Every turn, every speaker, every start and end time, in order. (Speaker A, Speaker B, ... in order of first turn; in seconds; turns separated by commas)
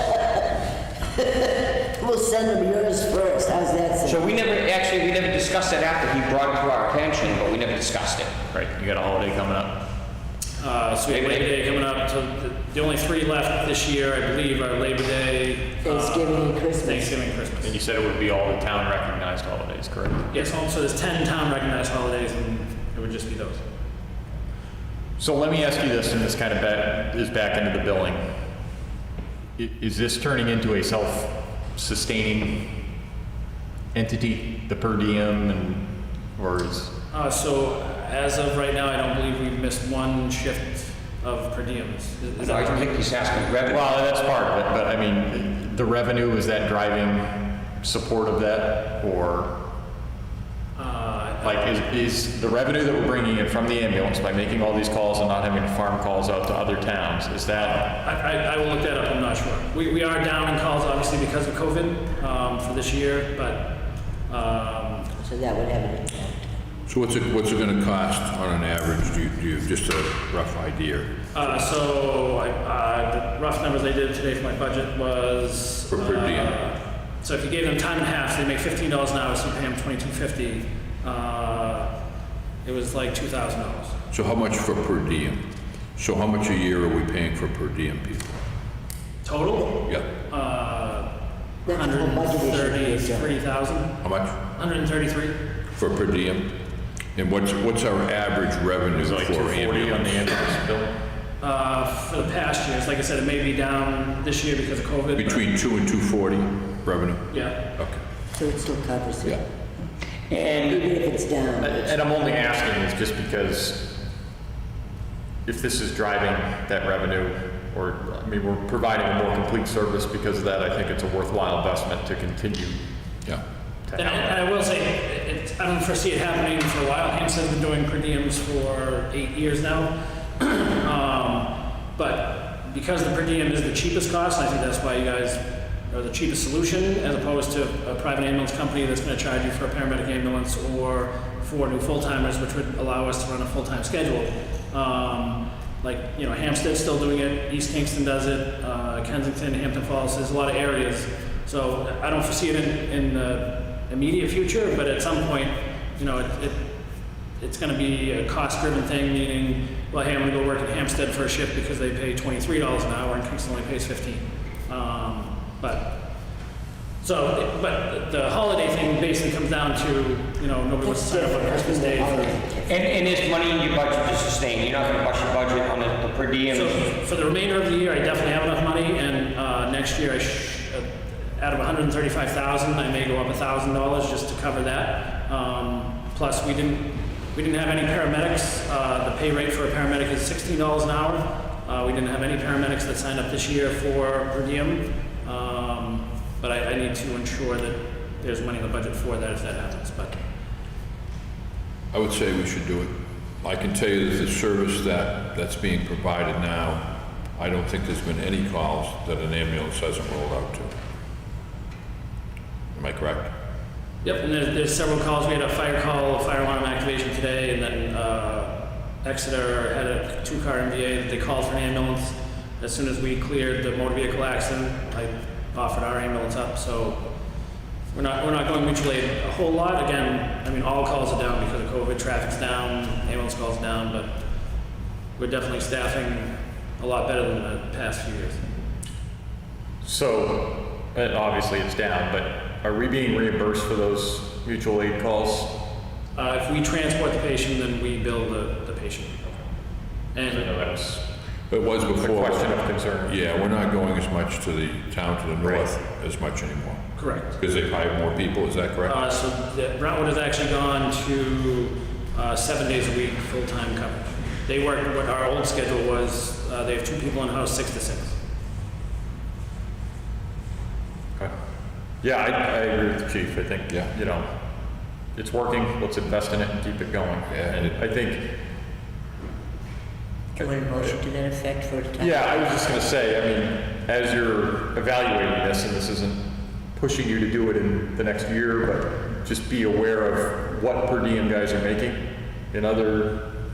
Speaker A: 2.0-4.2, Speaker B: 4.0-8.3, Speaker C: 8.5-9.8, Speaker D: 10.6-17.8, Speaker B: 11.1-11.5, Speaker A: 15.8-17.2, Speaker C: 17.6-20.3, Speaker D: 20.3-23.6, Speaker C: 25.2-28.2, Speaker C: 29.6-32.7, Speaker C: 33.9-36.9, Speaker D: 37.1-43.0, Speaker B: 42.4-43.9, Speaker C: 43.7-49.6, Speaker D: 50.7-51.8, Speaker C: 51.4-57.9, Speaker D: 57.6-63.7, Speaker D: 64.3-65.1, Speaker A: 65.1-66.5, Speaker E: 66.8-71.5, Speaker D: 71.3-81.9, Speaker E: 75.9-76.5, Speaker D: 82.6-83.9, Speaker E: 84.1-88.4, Speaker D: 89.2-91.1, Speaker A: 91.7-93.3, Speaker D: 91.7-93.9, Speaker E: 94.0-94.4, Speaker D: 94.5-95.3, Speaker E: 95.7-96.5, Speaker E: 97.1-100.4, Speaker C: 99.0-100.9, Speaker D: 101.4-105.5, Speaker E: 105.2-108.0, Speaker D: 107.3-107.5, Speaker A: 108.3-109.4, Speaker B: 110.3-110.9, Speaker A: 110.4-112.0, Speaker C: 111.6-113.9, Speaker C: 115.5-122.8, Speaker C: 123.8-124.4, Speaker D: 124.0-156.6, Speaker D: 157.4-166.0, Speaker D: 167.0-172.4, Speaker A: 170.8-173.0, Speaker B: 172.7-176.8, Speaker D: 176.5-200.2, Speaker E: 201.9-210.7, Speaker E: 212.7-213.3, Speaker D: 214.0-227.0, Speaker D: 227.9-234.1, Speaker D: 235.2-238.4, Speaker C: 239.8-245.6, Speaker D: 246.2-249.4, Speaker D: 250.1-250.5, Speaker C: 250.2-251.1, Speaker E: 251.5-259.0, Speaker C: 251.9-253.2, Speaker C: 255.4-255.7, Speaker D: 256.9-257.4, Speaker D: 258.8-268.2, Speaker C: 272.0-274.3, Speaker C: 275.1-278.4, Speaker E: 277.3-277.8, Speaker A: 280.4-282.6, Speaker C: 280.4-280.9, Speaker C: 282.0-293.3